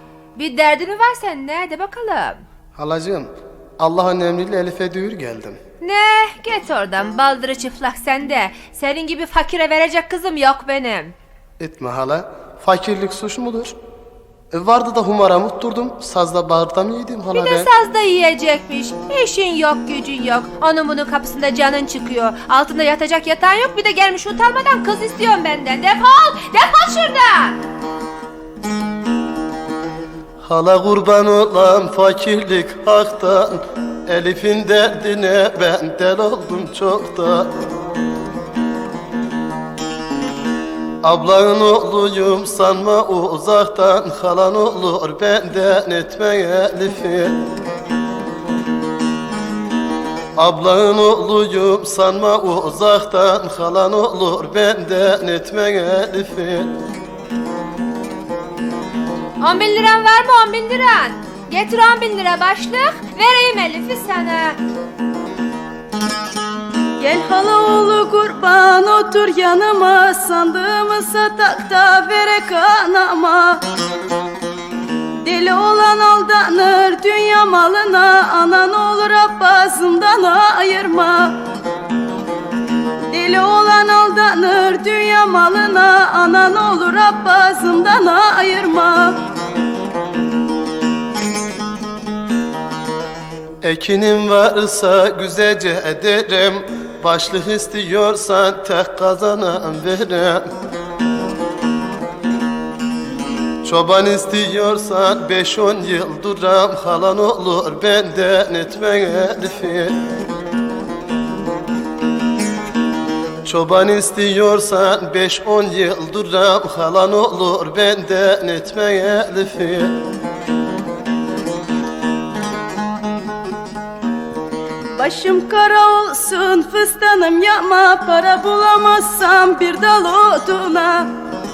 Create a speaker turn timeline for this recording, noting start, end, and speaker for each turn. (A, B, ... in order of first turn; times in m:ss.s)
0:00.4-0:02.4 A
0:02.7-0:05.6 B
0:05.8-0:11.1 A
0:11.6-0:13.7 B
0:14.5-0:17.7 B
0:17.3-0:27.6 A
0:30.4-0:37.5 B
0:41.0-0:47.4 B
0:50.4-0:56.7 B
0:59.4-1:04.6 A
1:07.0-1:13.6 C
1:15.2-1:21.4 C
1:23.1-1:29.2 C
1:33.6-1:40.4 B
1:43.6-1:50.0 B
1:53.4-2:00.0 B
2:05.0-2:11.1 C